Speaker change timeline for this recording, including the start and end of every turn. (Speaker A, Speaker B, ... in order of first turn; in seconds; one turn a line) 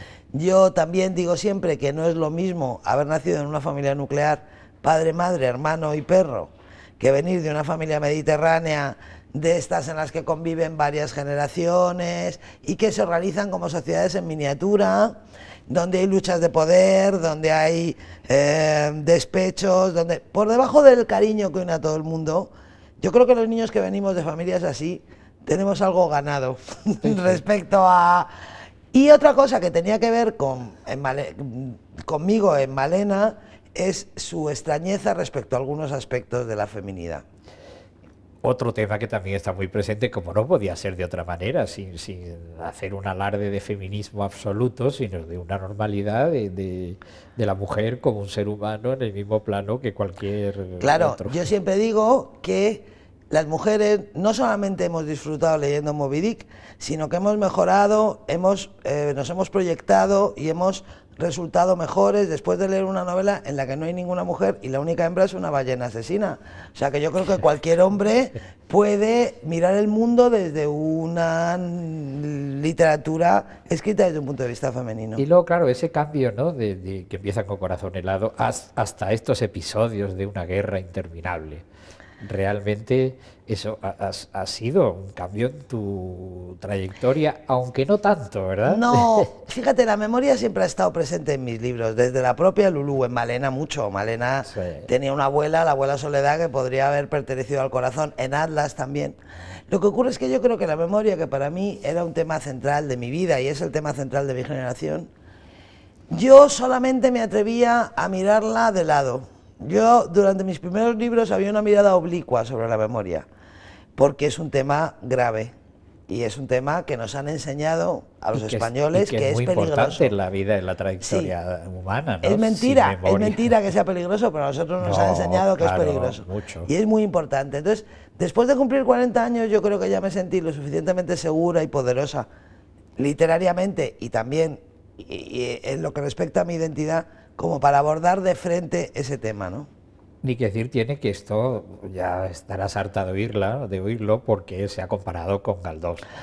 Speaker A: 0.3-28.3
Speaker B: 27.1-27.3
Speaker A: 28.9-37.2
Speaker B: 38.4-51.5
Speaker A: 50.8-75.2
Speaker B: 75.2-81.6
Speaker B: 82.2-89.3
Speaker A: 88.7-99.2
Speaker B: 94.5-94.9
Speaker A: 99.7-105.1
Speaker A: 106.1-113.3
Speaker A: 114.0-115.5
Speaker A: 116.1-120.1
Speaker B: 118.3-123.5
Speaker A: 121.0-121.3
Speaker A: 122.2-132.3
Speaker B: 124.8-126.7
Speaker A: 133.0-139.7
Speaker B: 140.2-146.1